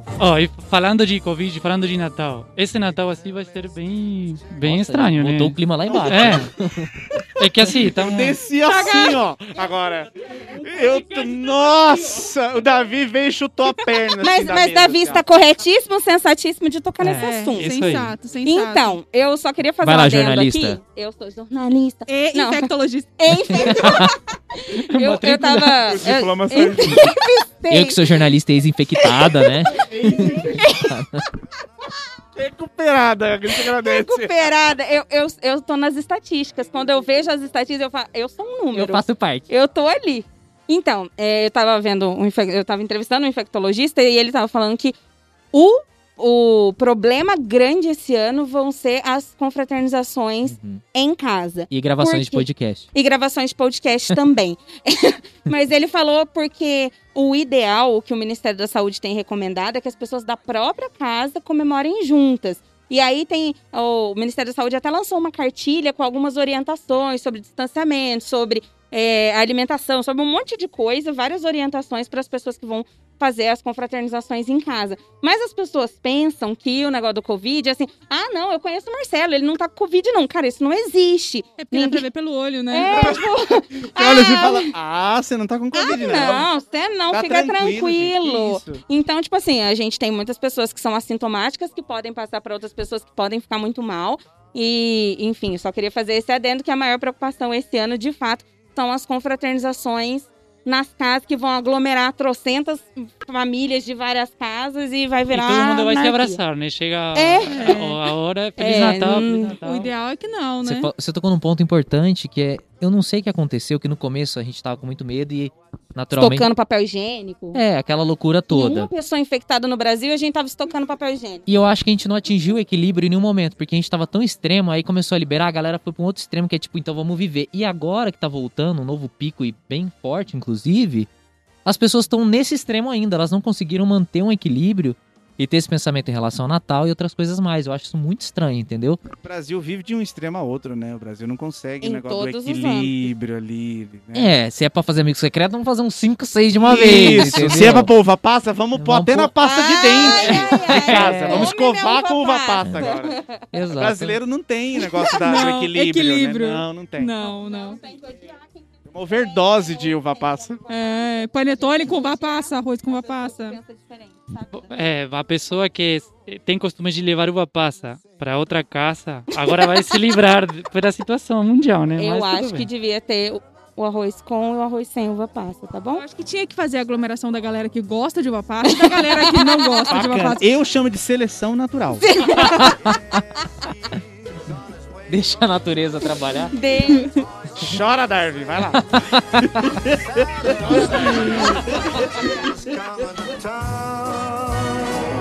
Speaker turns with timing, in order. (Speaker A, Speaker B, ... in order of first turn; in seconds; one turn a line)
Speaker A: 0.2-6.5
Speaker B: 4.6-6.9
Speaker C: 5.9-6.5
Speaker A: 7.4-8.4
Speaker C: 7.8-15.2
Speaker D: 8.7-9.2
Speaker E: 14.2-17.8
Speaker D: 17.2-19.0
Speaker A: 17.6-18.1
Speaker E: 18.4-28.0
Speaker B: 19.8-20.8
Speaker D: 22.1-23.1
Speaker B: 23.5-24.1
Speaker A: 24.9-25.7
Speaker C: 25.6-27.1
Speaker B: 27.7-31.2
Speaker E: 29.0-29.4
Speaker C: 29.8-30.6
Speaker E: 30.2-30.9
Speaker C: 32.3-34.5
Speaker E: 33.6-44.9
Speaker B: 38.7-39.5
Speaker E: 45.5-82.0
Speaker B: 50.5-50.8
Speaker B: 51.7-52.9
Speaker D: 81.6-83.2
Speaker E: 82.7-84.7
Speaker C: 82.9-83.2
Speaker C: 83.9-86.5
Speaker E: 85.7-106.4
Speaker C: 87.1-88.8
Speaker A: 105.3-109.9
Speaker E: 107.1-107.9
Speaker D: 107.5-107.8
Speaker E: 108.6-109.6
Speaker D: 109.6-110.9
Speaker B: 110.6-116.5
Speaker E: 116.1-117.6
Speaker B: 117.5-118.9
Speaker E: 118.5-121.4
Speaker B: 121.5-131.1
Speaker B: 131.6-139.0
Speaker C: 139.2-144.3
Speaker E: 141.8-143.1
Speaker B: 144.1-147.9
Speaker C: 146.6-153.2
Speaker B: 148.7-149.3
Speaker E: 149.4-153.5
Speaker B: 150.1-151.5
Speaker B: 153.5-154.2
Speaker C: 153.7-157.1
Speaker D: 155.1-157.8
Speaker E: 157.2-164.8
Speaker C: 158.9-160.6
Speaker D: 160.7-163.6
Speaker A: 164.5-172.7
Speaker E: 172.0-176.0
Speaker D: 175.9-180.5
Speaker E: 178.6-179.8
Speaker C: 179.9-182.0
Speaker E: 182.0-182.8
Speaker B: 182.2-183.2
Speaker F: 184.7-185.2
Speaker B: 185.1-186.5
Speaker E: 186.5-187.1
Speaker C: 187.6-191.5
Speaker B: 188.8-189.8
Speaker F: 190.1-195.0